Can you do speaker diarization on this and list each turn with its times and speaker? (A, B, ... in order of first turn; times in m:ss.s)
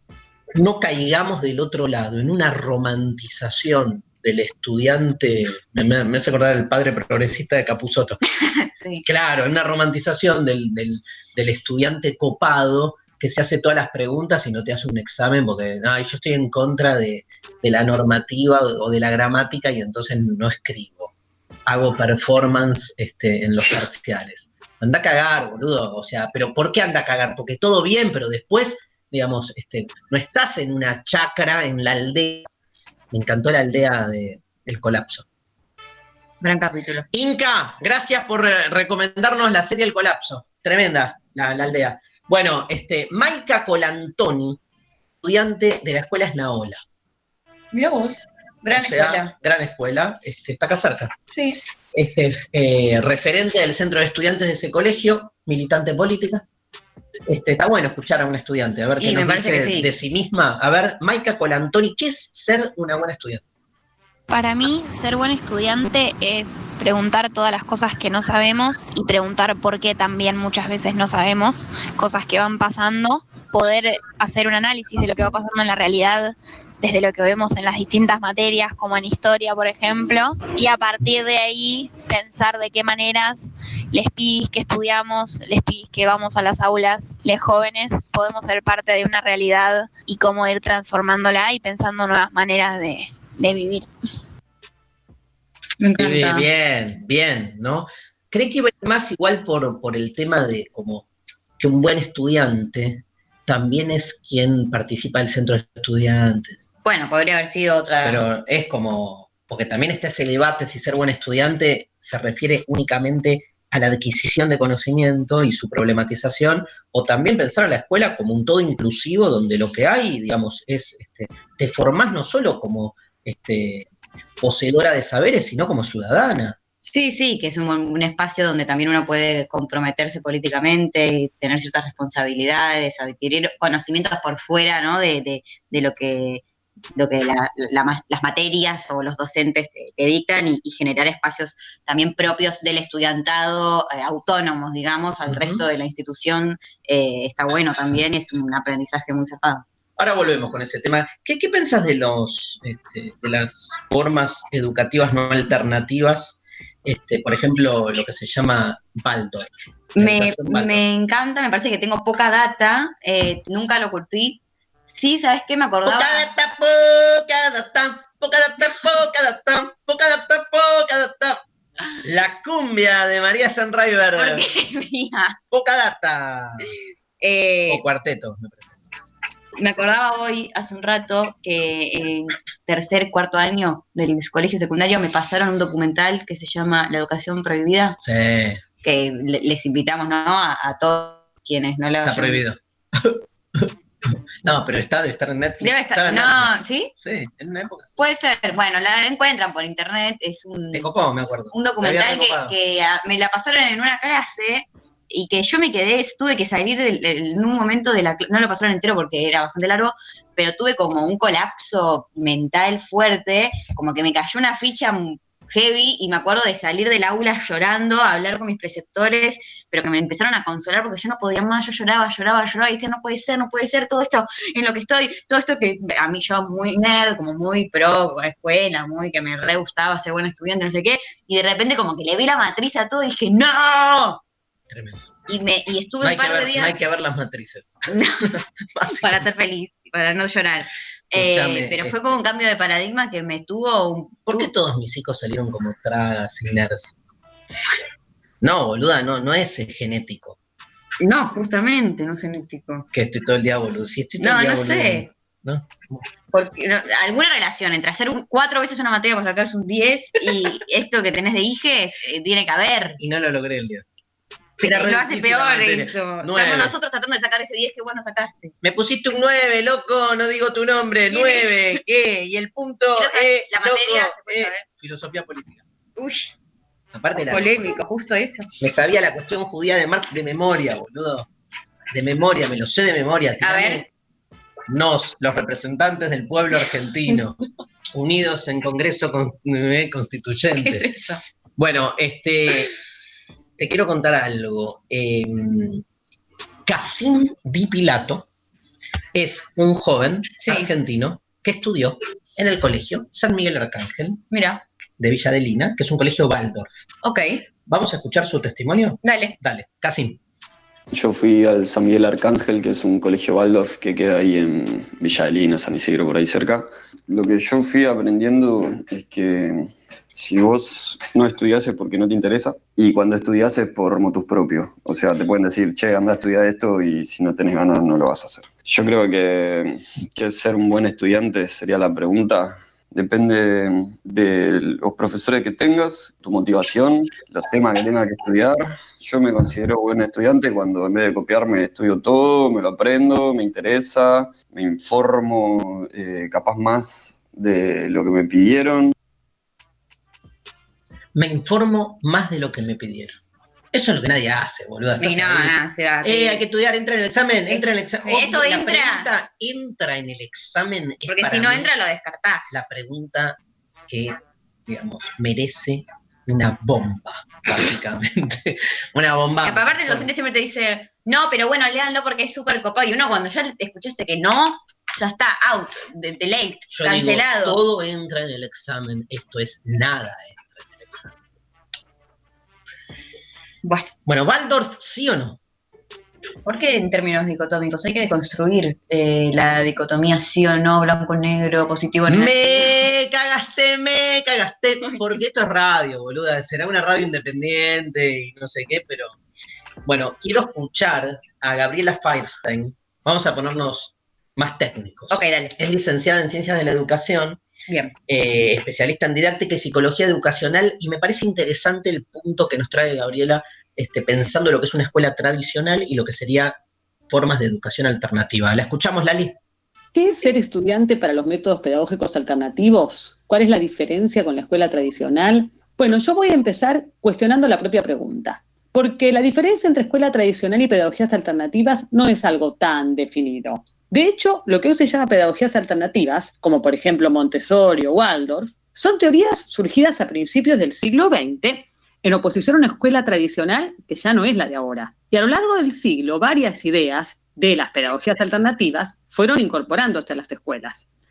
0:00.5-0:08.2 A
0:08.4-0:09.0 B
0:09.0-0:21.1 A
0:21.7-0:32.5 A
0:33.1-0:35.2 A
0:36.4-0:37.0 B
0:37.1-0:44.6 A
0:45.2-0:46.8 A
0:47.7-0:49.3 B
0:48.7-0:51.1 A
0:51.3-0:51.6 B
0:51.9-0:56.4 A
0:57.3-1:03.4 A
0:59.0-0:59.9 B
1:04.3-1:33.9 C
1:35.8-1:36.5 B
1:36.0-1:41.0 A
1:41.6-1:46.6 A
1:46.8-1:48.2 B
1:48.0-2:03.9 A
2:04.4-2:06.6 A
2:06.8-2:16.4 B
2:17.0-2:29.6 B
2:25.3-2:25.6 A
2:30.0-2:40.8 A
2:40.0-2:46.3 B
2:45.8-2:51.4 A
2:52.0-2:54.4 A
2:54.2-2:55.4 B
2:55.5-2:56.7 A
2:57.2-2:57.8 B
2:57.7-2:58.8 A
2:59.6-3:08.0 B
3:08.0-3:08.6 A
3:08.8-3:12.4 B
3:12.0-3:17.9 A
3:15.6-3:16.9 B
3:18.0-3:20.9 B
3:20.7-3:22.5 A
3:21.5-3:54.2 B
3:54.7-3:55.0 A
3:55.3-3:56.8 B
3:56.0-3:57.8 A
3:57.9-4:04.5 B
3:58.7-3:59.2 A
4:01.1-4:02.1 A
4:04.3-4:07.0 A
4:08.4-4:10.4 A
4:11.0-4:12.8 B
4:12.9-4:16.0 A
4:14.2-4:15.1 B
4:16.3-4:23.0 B
4:23.0-4:24.0 A
4:24.6-4:28.5 B
4:24.6-4:26.7 A
4:28.6-4:35.6 A
4:31.1-4:31.8 B
4:32.9-4:34.6 B
4:36.0-4:36.3 B
4:36.9-4:37.6 A
4:37.2-4:38.5 B
4:38.6-4:41.3 A
4:41.9-4:43.8 A
4:43.4-4:43.8 B
4:44.7-4:47.4 A
4:47.9-4:50.9 A
4:50.6-4:51.2 B
4:51.6-4:52.7 A
4:53.6-4:55.8 A
4:56.6-4:58.2 A
4:59.1-5:04.2 A
5:00.4-5:00.7 B
5:04.3-5:04.6 B
5:05.0-5:06.7 A
5:07.0-5:07.4 B
5:07.7-5:10.2 A
5:09.0-5:09.3 B
5:10.9-5:48.9 D
5:51.1-5:53.2 A
5:53.7-6:01.7 A
5:55.0-5:56.4 B
5:57.5-5:59.1 B
6:01.1-6:02.6 B
6:02.5-6:03.4 A
6:03.9-6:04.1 A
6:04.7-6:10.1 A
6:09.4-6:17.6 B
6:16.7-6:21.2 A
6:23.6-6:23.9 B
6:24.0-6:25.4 A
6:26.4-6:32.8 B
6:32.1-6:39.2 A
6:39.8-6:47.4 A
6:45.1-6:45.6 B
6:47.7-6:47.9 B
6:48.1-6:56.6 A
6:57.1-6:59.3 A
6:59.9-7:30.8 E